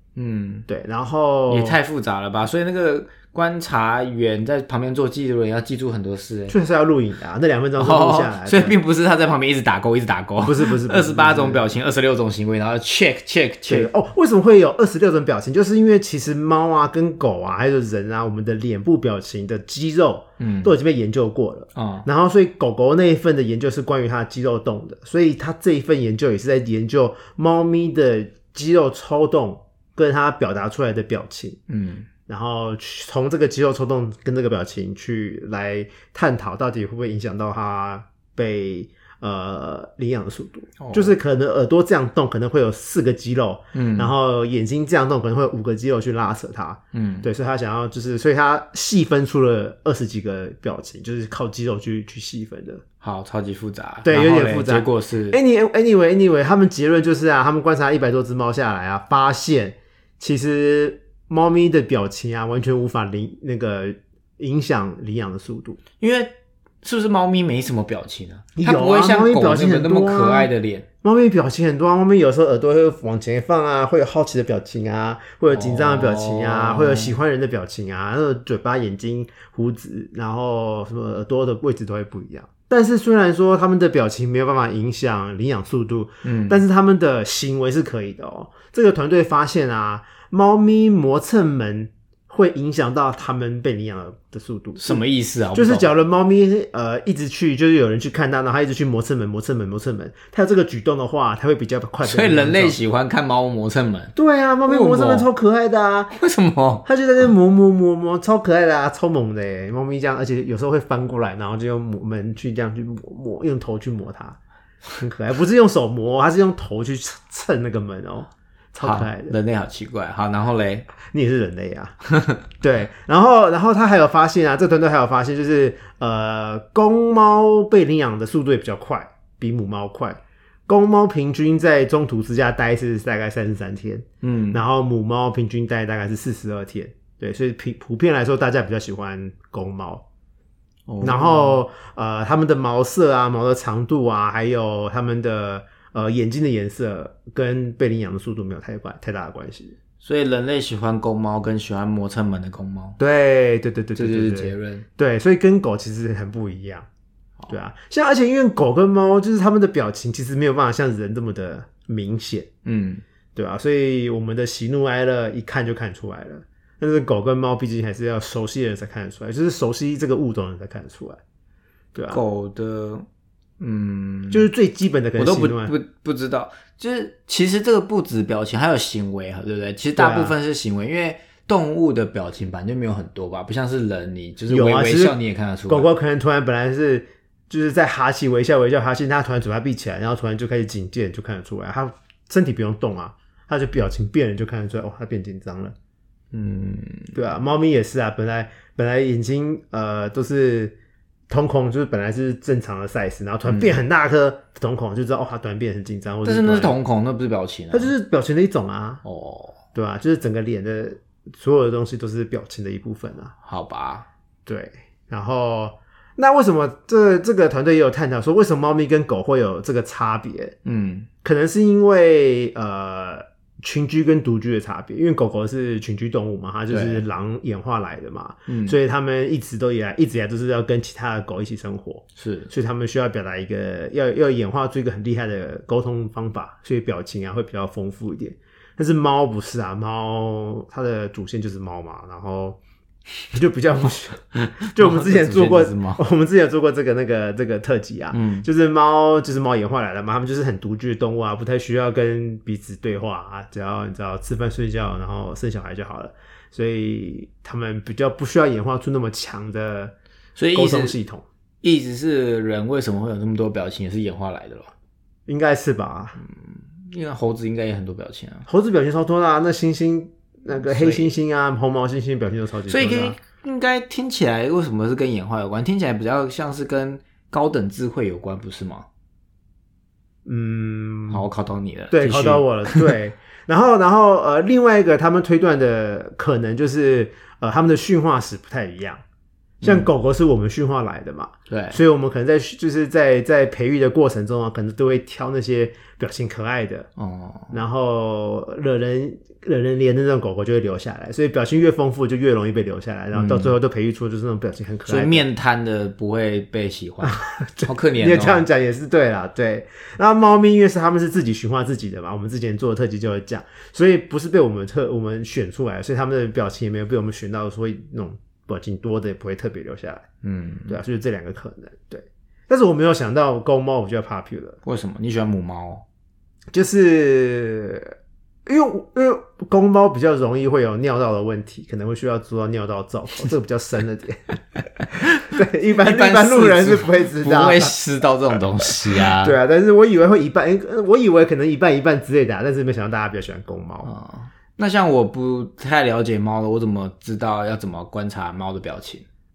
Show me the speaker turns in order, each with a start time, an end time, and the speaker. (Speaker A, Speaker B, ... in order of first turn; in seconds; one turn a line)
Speaker A: 0.1-0.7
Speaker B: 0.7-1.8
Speaker A: 1.5-6.5
Speaker B: 6.5-8.8
Speaker A: 7.8-13.9
Speaker B: 10.4-11.6
Speaker B: 13.7-31.6
Speaker A: 20.4-20.7
Speaker A: 21.7-22.1
Speaker A: 31.7-32.1
Speaker B: 32.3-52.8
Speaker A: 40.8-41.1
Speaker A: 43.7-44.1
Speaker A: 46.9-47.3
Speaker A: 53.0-55.4
Speaker B: 54.0-65.8
Speaker A: 66.0-70.8
Speaker B: 68.5-70.5
Speaker B: 71.0-95.0
Speaker A: 75.5-77.1
Speaker A: 86.2-86.6
Speaker A: 94.8-95.9
Speaker B: 95.5-102.8
Speaker A: 102.0-104.1
Speaker B: 104.1-106.1
Speaker A: 104.7-105.3
Speaker A: 106.1-106.8
Speaker B: 106.8-114.4
Speaker B: 114.9-119.3
Speaker A: 118.8-120.9
Speaker B: 121.0-122.0
Speaker B: 122.6-140.0
Speaker A: 134.2-134.6
Speaker A: 140.9-141.6
Speaker B: 141.0-149.8
Speaker A: 150.0-153.0
Speaker B: 153.0-156.8
Speaker A: 153.9-154.8
Speaker B: 157.5-162.5
Speaker A: 162.6-163.0
Speaker B: 163.3-171.2
Speaker B: 171.9-172.2
Speaker A: 172.1-173.1
Speaker A: 173.6-174.5
Speaker B: 174.3-175.7
Speaker A: 175.2-185.9
Speaker B: 180.0-180.3
Speaker B: 184.5-185.2
Speaker B: 185.7-195.7
Speaker A: 196.3-197.1
Speaker B: 197.1-200.7
Speaker B: 201.3-206.7
Speaker A: 203.5-203.8
Speaker A: 206.2-207.9
Speaker B: 207.7-209.0
Speaker A: 209.0-209.6
Speaker B: 209.7-213.3
Speaker A: 213.4-214.1
Speaker B: 214.4-220.5
Speaker A: 220.6-221.1
Speaker B: 221.2-242.6
Speaker A: 226.7-227.0
Speaker A: 228.5-228.7
Speaker A: 232.2-232.5
Speaker B: 243.3-259.9
Speaker A: 244.6-246.0
Speaker A: 248.1-248.5
Speaker A: 260.4-261.0
Speaker B: 260.5-261.2
Speaker A: 261.6-264.7
Speaker B: 265.3-266.2
Speaker A: 266.2-268.5
Speaker B: 268.5-273.1
Speaker A: 270.6-271.1
Speaker A: 272.7-278.9
Speaker B: 280.2-281.2
Speaker A: 281.1-282.9
Speaker B: 281.9-289.0
Speaker A: 289.6-289.9
Speaker B: 289.6-296.9
Speaker A: 291.5-291.8
Speaker A: 297.0-297.6
Speaker B: 297.5-305.3
Speaker A: 303.1-303.5
Speaker A: 304.9-308.4
Speaker B: 307.0-320.0
Speaker A: 320.2-320.8
Speaker B: 320.7-324.6
Speaker A: 324.6-325.8
Speaker B: 326.5-327.9
Speaker B: 328.4-334.4
Speaker B: 335.0-337.8
Speaker A: 335.2-339.4
Speaker B: 338.7-343.9
Speaker A: 343.8-349.0